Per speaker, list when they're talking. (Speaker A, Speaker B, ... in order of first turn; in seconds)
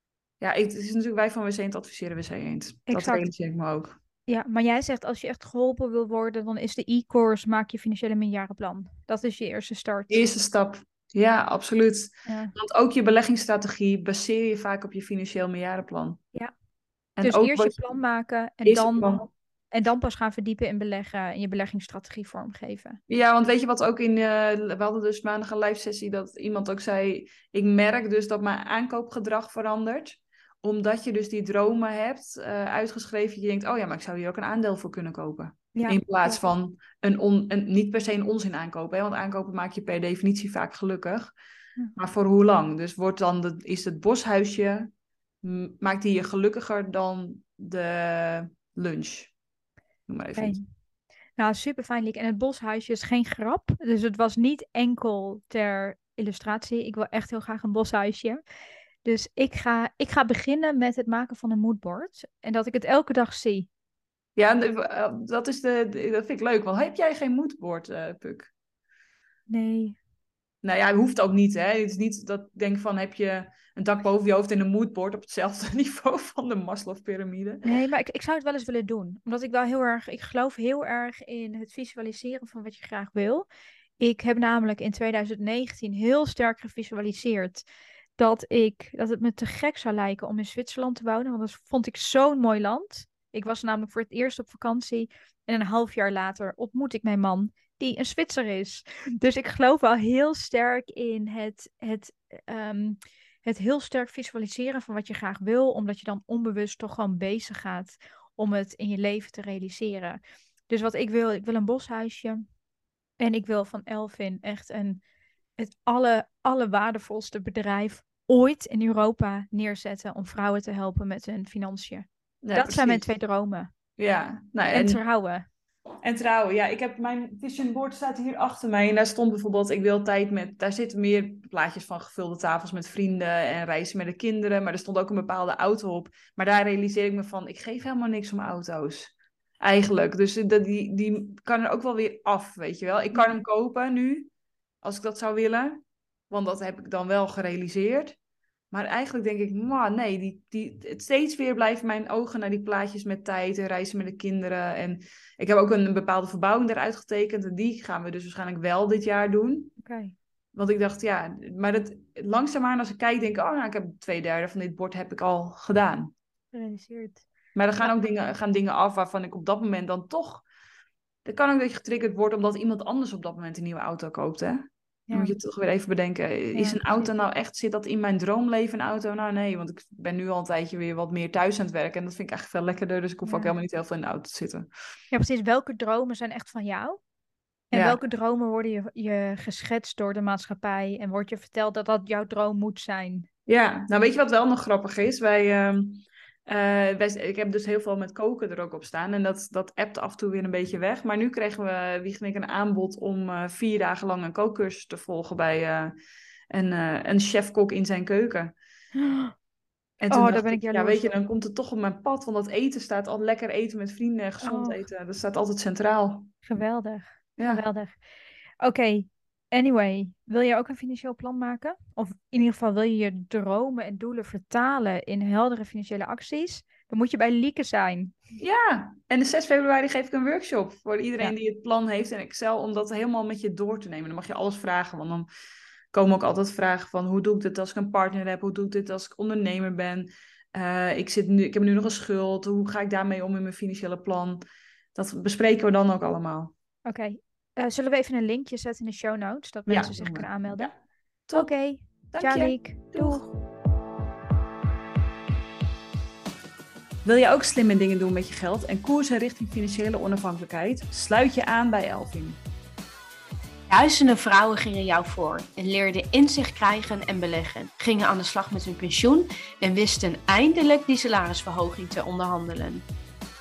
Speaker A: 0.4-4.0, 10.1-16.2, 17.2-17.8, 18.6-19.3, 23.1-41.3, 42.0-44.9, 45.4-49.3, 50.1-50.6, 64.4-68.5, 70.6-77.7, 122.4-123.1, 124.0-125.0, 126.0-144.3, 144.8-148.2, 148.7-159.7, 160.5-166.1, 167.6-170.4, 171.2-184.7, 187.7-188.0, 193.5-205.9, 206.5-208.6, 210.0-216.3, 217.4-217.7, 228.4-235.3, 235.9-244.4, 244.9-246.5, 249.7-250.8, 251.3-251.5, 252.1-253.3, 257.1-262.4
Speaker B: 2.9-3.3, 4.3-10.2, 12.3-12.5, 17.2-19.2, 19.7-23.0, 35.8-36.4, 50.4-50.6, 51.4-58.4, 59.0-63.7, 69.5-70.0, 77.6-83.5, 84.0-87.7, 88.2-112.4, 113.2-115.0, 115.6-123.7, 124.7-125.5, 159.8-160.2, 166.5-167.2, 175.1-175.4, 176.6-177.1, 183.2-183.5, 185.1-187.0, 187.7-193.3, 209.0-209.3, 210.1-211.2, 214.4-214.8, 216.4-218.0, 218.6-228.2, 246.8-250.7, 251.3-253.3
Speaker C: 263.7-272.9